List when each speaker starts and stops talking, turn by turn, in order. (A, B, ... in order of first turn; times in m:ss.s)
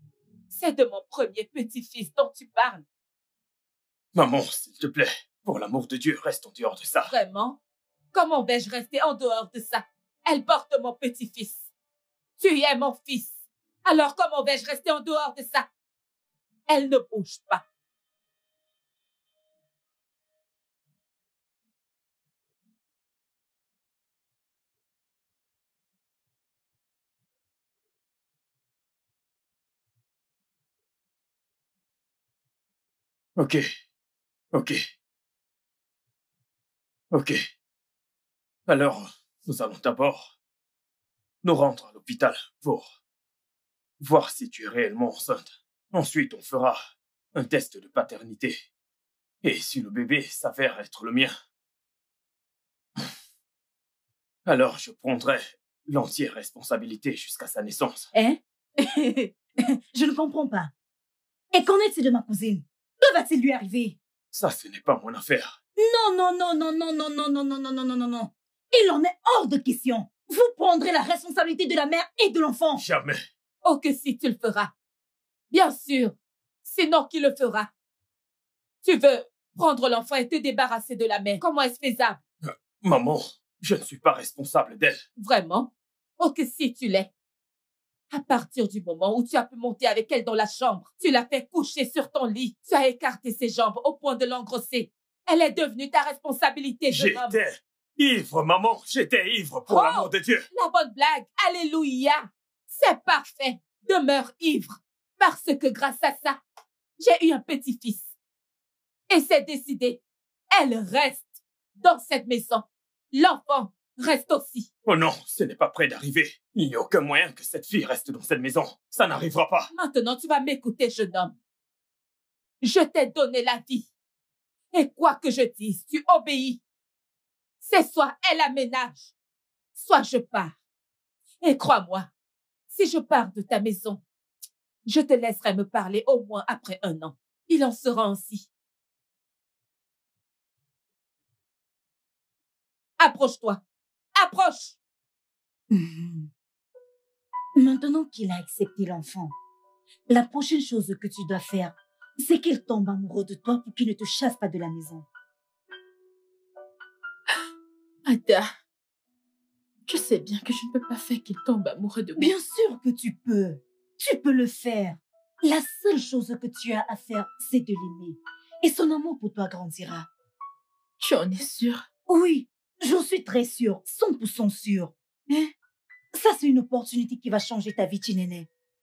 0:00.5-0:02.8 A
0:04.2-0:07.1 B
0:07.1-0:07.6 A
0:08.1-0:11.7 A
0:12.4-0:15.7 A
0:16.7-0:17.6 A
0:33.4-0:33.7 B
0:34.5-0:34.8 B
0:37.1-0:37.5 B
0:38.7-0:40.3 B
0:41.4-0:42.9 B
0:44.0-0:46.8 B
0:47.4-0:48.6 B
0:49.4-0:51.4 B
0:54.5-0:58.1 B
0:58.1-1:00.7 C
1:01.5-1:04.0 C
1:04.3-1:05.6 B
1:05.8-1:12.8 C
1:12.8-1:13.2 B
1:13.6-1:14.7 A
1:15.5-1:17.7 A
1:18.8-1:22.2 A
1:22.4-1:25.0 B
1:25.2-1:27.1 A
1:28.1-1:37.4 A
1:36.9-1:40.5 B
1:39.7-1:46.4 A
1:47.0-1:48.1 A
1:49.1-1:50.0 A
1:50.5-1:54.7 A
1:54.9-1:59.7 B
1:59.7-2:01.4 A
2:02.6-2:03.9 A
2:04.7-2:06.6 A
2:07.6-2:09.0 A
2:09.8-2:10.6 A
2:11.4-2:12.1 A
2:12.7-2:14.0 A
2:14.8-2:18.5 A
2:23.0-2:23.6 A
2:24.2-2:24.8 A
2:25.7-2:26.3 C
2:27.6-2:29.4 C
2:30.1-2:35.1 C
2:38.1-2:38.5 D
2:39.9-2:42.3 D
2:42.2-2:50.1 C
2:51.0-2:51.8 D
2:52.1-2:55.5 C
2:56.1-2:58.5 C